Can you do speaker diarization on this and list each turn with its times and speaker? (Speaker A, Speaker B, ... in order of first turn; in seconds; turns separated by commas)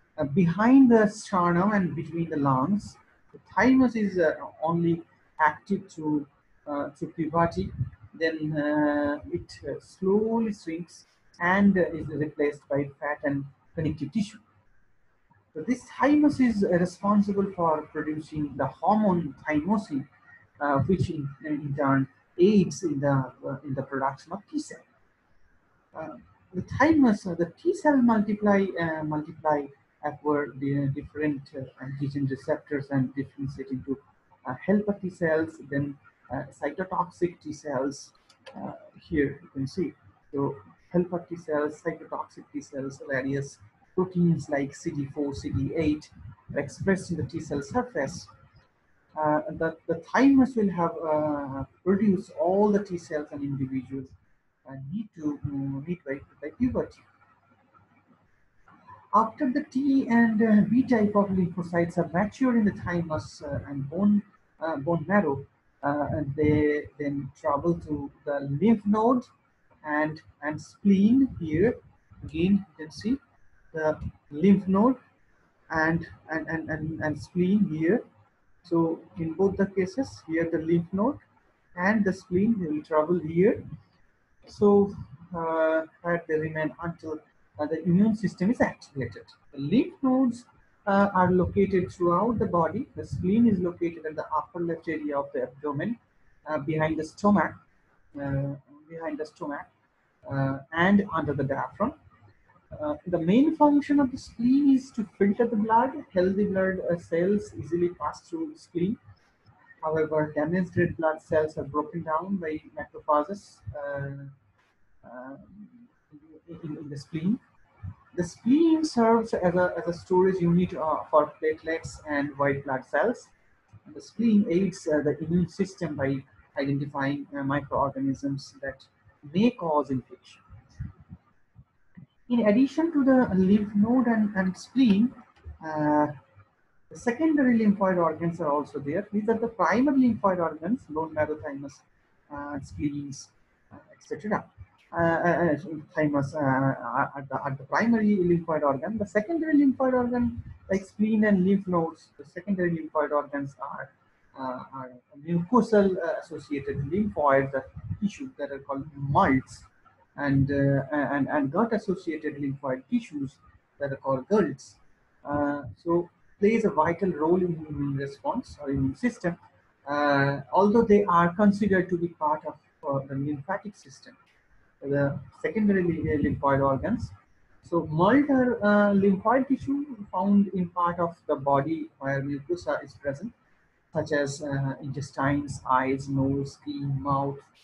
Speaker A: 0.2-14.4, Speaker A: 15.5-20.1, Speaker A: 20.6-24.8, Speaker A: 25.9-48.3, Speaker A: 49.1-54.1, Speaker A: 54.6-57.0, Speaker A: 59.1-69.3, Speaker A: 69.8-73.2, Speaker A: 73.7-75.0, Speaker A: 75.7-78.0, Speaker A: 78.6-81.2, Speaker A: 81.7-83.7, Speaker A: 84.5-97.6, Speaker A: 98.1-99.7, Speaker A: 100.2-102.0, Speaker A: 102.7-109.0, Speaker A: 109.8-114.3, Speaker A: 115.0-117.4, Speaker A: 118.1-123.3, Speaker A: 123.8-130.4, Speaker A: 132.3-136.1, Speaker A: 136.9-174.2, Speaker A: 174.8-183.3, Speaker A: 183.9-187.4